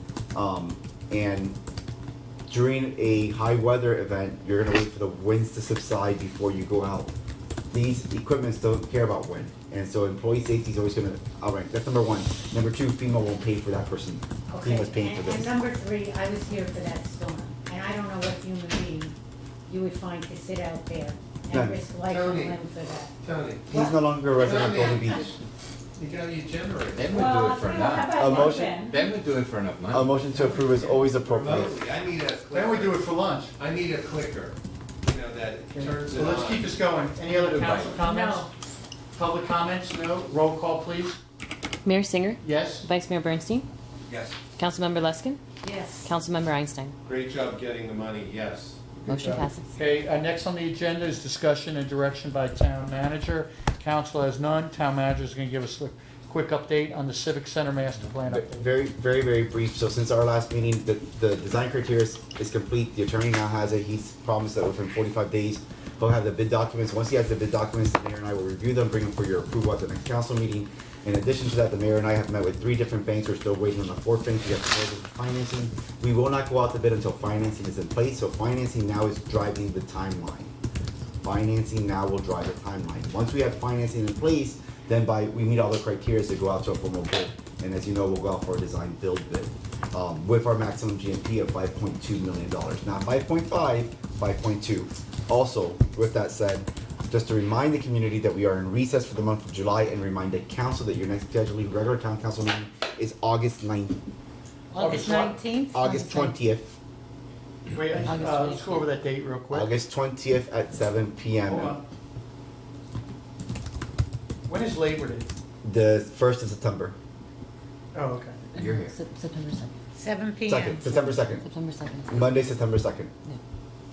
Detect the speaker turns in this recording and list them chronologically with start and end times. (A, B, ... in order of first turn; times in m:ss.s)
0:00.3-0:01.6 A
0:02.5-0:07.1 A
0:07.7-0:15.6 A
0:14.5-0:19.1 B
0:19.7-0:23.1 B
0:21.5-0:21.8 A
0:22.0-0:22.6 C
0:23.2-0:23.6 C
0:23.7-0:25.4 A
0:23.7-0:24.0 B
0:24.3-0:25.3 C
0:26.0-0:27.3 C
0:26.9-0:30.4 D
0:27.1-0:29.0 B
0:28.1-0:28.8 A
0:29.9-0:31.8 A
0:30.3-0:30.8 E
0:31.2-0:36.8 C
0:32.5-0:33.5 E
0:35.7-0:38.5 E
0:37.2-0:38.0 D
0:38.0-0:38.5 B
0:39.1-0:41.2 E
0:41.8-0:43.7 F
0:42.4-0:42.9 E
0:44.0-0:44.4 C
0:44.6-0:45.4 F
0:45.6-0:46.1 B
0:46.0-0:46.9 F
0:47.0-0:49.3 C
0:49.1-0:49.8 F
0:49.1-0:58.7 E
0:58.3-1:20.5 A
1:21.2-1:44.0 A
1:44.7-1:46.3 B
1:44.8-1:45.3 E
1:45.7-1:46.7 A
1:47.7-1:49.7 E
1:48.0-1:48.9 F
1:49.5-1:51.8 A
1:51.5-1:51.8 E
1:54.5-1:55.3 E
1:55.6-1:56.9 A
1:57.9-1:58.4 E
1:58.5-1:59.8 F
1:58.6-1:58.9 A
1:59.9-2:00.8 B
2:00.5-2:01.4 A
2:00.8-2:02.4 F
2:02.1-2:03.1 A